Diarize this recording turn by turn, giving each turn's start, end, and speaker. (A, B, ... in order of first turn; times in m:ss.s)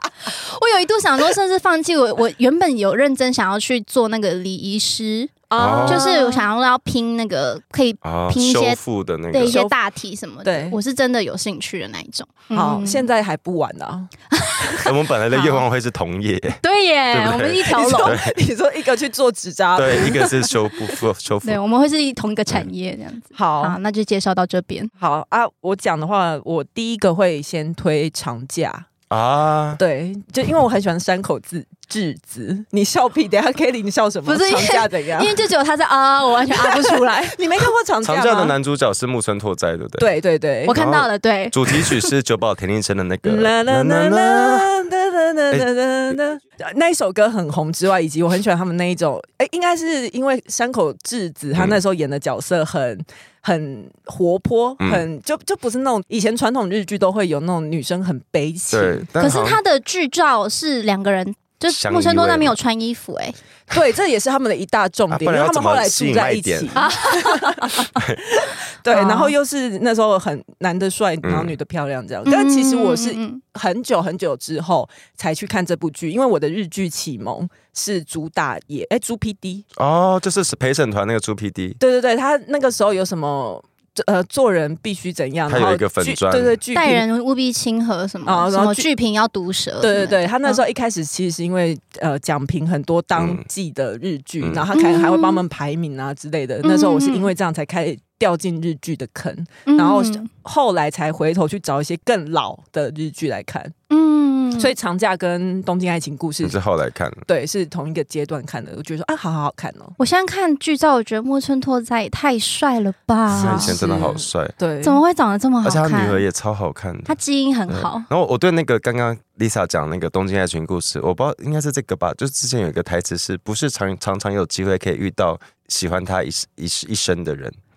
0:00.2-0:08.8 A
0:05.5-0:06.5 B
0:05.6-0:06.1 C
0:08.0-0:09.6 C
0:09.3-0:13.1 A
0:09.4-0:09.8 B
0:10.4-0:10.8 B
0:12.5-0:14.1 B
0:14.3-0:14.6 A
0:14.6-0:15.6 B
0:14.8-0:16.6 C
0:16.6-0:18.2 A
0:17.1-0:18.4 C
0:17.7-0:20.5 B
0:19.7-0:21.6 C
0:21.4-0:24.9 A
0:23.3-0:23.8 B
0:25.0-0:28.9 B
0:29.1-0:29.8 C
0:29.8-0:35.4 B
0:34.2-0:37.4 A
0:36.5-0:38.6 B
0:38.0-0:40.1 C
0:40.0-0:40.7 B
0:40.6-0:41.6 A
0:40.7-0:44.7 C
0:43.2-0:59.1 B
0:54.8-0:55.0 C
0:58.7-0:59.6 C
0:59.2-1:03.4 A
1:01.7-1:02.5 C
1:03.7-1:19.6 B
1:05.1-1:06.7 C
1:06.8-1:07.9 A
1:08.9-1:09.3 A
1:11.2-1:11.6 C
1:12.2-1:13.4 A
1:19.8-1:21.8 C
1:21.8-1:27.0 B
1:25.5-1:26.6 C
1:26.7-1:30.6 A
1:28.2-1:28.9 B
1:29.8-1:43.7 B
1:33.2-1:33.4 C
1:34.4-1:34.6 C
1:34.7-1:35.4 A
1:36.6-1:37.3 A
1:39.6-1:40.3 A
1:43.9-1:44.7 A
1:44.6-1:46.6 B
1:46.4-1:47.2 C
1:47.3-1:49.9 B
1:50.0-1:53.8 A
1:53.3-1:54.5 C
1:53.4-1:55.0 B
1:54.8-1:56.2 A
1:55.6-1:57.1 C
1:57.1-1:58.1 A
1:57.7-2:07.6 C